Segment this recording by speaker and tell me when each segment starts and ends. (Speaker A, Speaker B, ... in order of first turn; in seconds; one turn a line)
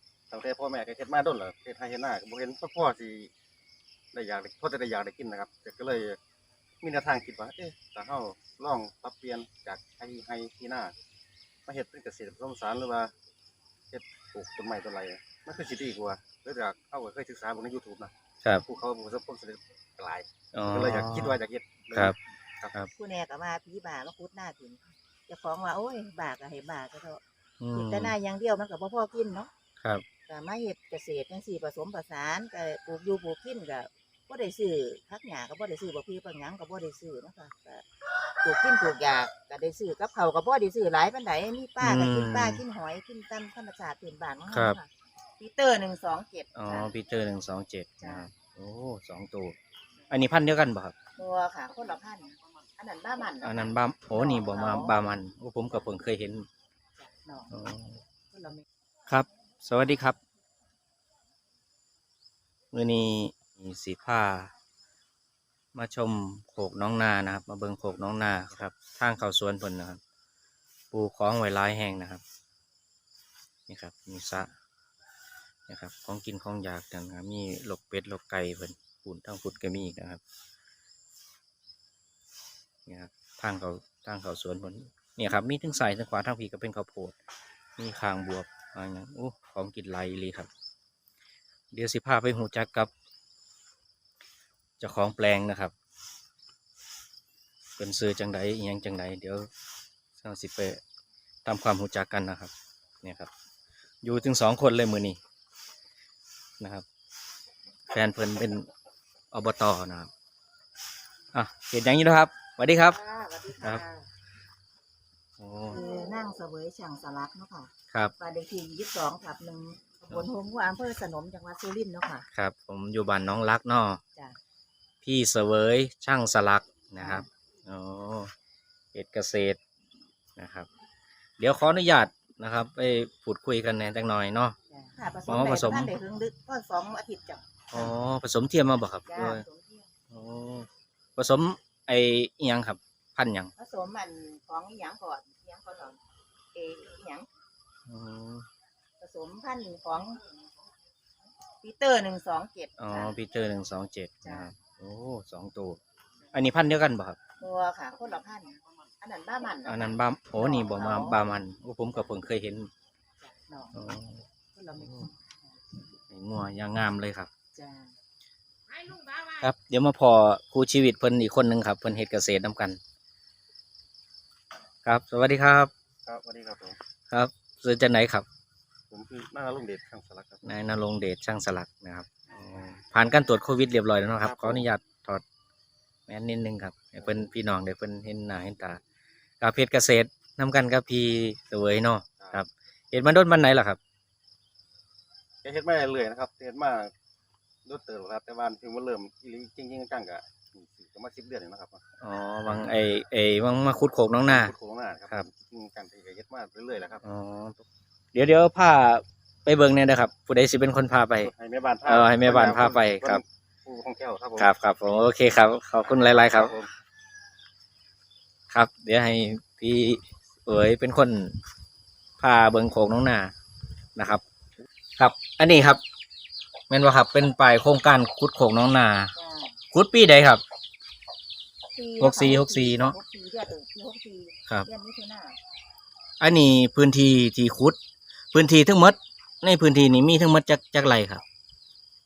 Speaker A: 0.3-3.3
Speaker A: 4.1-6.2
Speaker A: 6.8-10.9
Speaker A: 11.7-13.1
Speaker A: 13.9-22.7
Speaker B: 20.5-21.4
Speaker C: 22.9-27.2
Speaker B: 27.6-28.1
Speaker C: 27.7-29.5
Speaker C: 30.3-37.9
Speaker C: 38.4-46.9
Speaker B: 41.8-42.6
Speaker B: 44.5-44.8
Speaker B: 46.5-49.6
Speaker C: 48.0-48.3
Speaker B: 50.1-51.0
Speaker C: 51.2-55.1
Speaker B: 53.4-56.5
Speaker C: 57.0-57.5
Speaker B: 57.5-58.0
Speaker C: 58.3-58.6
Speaker B: 59.1-60.2
Speaker B: 62.7-64.5
Speaker B: 65.7-70.0
Speaker B: 70.9-72.2
Speaker B: 73.7-74.5
Speaker B: 75.7-80.2
Speaker B: 82.9-87.2
Speaker B: 87.8-90.5
Speaker B: 91.7-92.9
Speaker B: 94.8-95.7
Speaker B: 97.8-99.5
Speaker B: 100.2-100.8
Speaker B: 101.5-103.3
Speaker B: 104.0-105.2
Speaker B: 106.6-106.8
Speaker B: 107.9-108.7
Speaker B: 109.3-110.1
Speaker B: 111.3-113.0
Speaker C: 112.9-114.1
Speaker B: 115.4-115.8
Speaker C: 115.7-122.3
Speaker B: 122.3-124.0
Speaker B: 125.0-128.3
Speaker C: 127.0-127.3
Speaker B: 128.9-129.6
Speaker B: 130.4-130.7
Speaker B: 131.4-134.6
Speaker C: 134.7-137.9
Speaker B: 135.3-135.9
Speaker B: 137.7-139.4
Speaker C: 139.1-139.9
Speaker B: 140.1-143.5
Speaker C: 143.6-146.0
Speaker C: 146.5-147.3
Speaker B: 147.9-148.5
Speaker C: 149.0-150.2
Speaker C: 151.6-153.2
Speaker B: 152.8-155.8
Speaker C: 154.2-154.5
Speaker B: 156.3-157.2
Speaker C: 157.4-161.2
Speaker B: 159.7-162.7
Speaker C: 163.2-163.8
Speaker B: 163.7-164.2
Speaker C: 164.5-165.6
Speaker B: 166.1-167.3
Speaker C: 167.6-168.0
Speaker B: 169.2-172.8
Speaker B: 174.8-175.7
Speaker A: 176.1-176.8
Speaker B: 177.1-178.3
Speaker A: 178.9-180.5
Speaker B: 180.4-185.2
Speaker A: 184.2-184.7
Speaker B: 186.1-188.8
Speaker B: 189.4-193.8
Speaker A: 195.4-196.9
Speaker A: 197.7-201.8
Speaker B: 202.0-204.5
Speaker A: 204.3-207.0
Speaker B: 207.0-207.6
Speaker B: 208.1-211.3
Speaker A: 211.2-214.5
Speaker B: 211.8-213.2
Speaker B: 214.4-216.5
Speaker A: 215.9-216.7
Speaker B: 218.5-221.4
Speaker B: 222.2-223.3
Speaker B: 224.0-224.2
Speaker B: 225.0-225.8
Speaker B: 226.7-229.1
Speaker C: 229.2-229.6
Speaker B: 229.7-230.4
Speaker C: 231.8-235.4
Speaker B: 232.0-232.9
Speaker B: 236.2-237.8
Speaker B: 238.3-241.2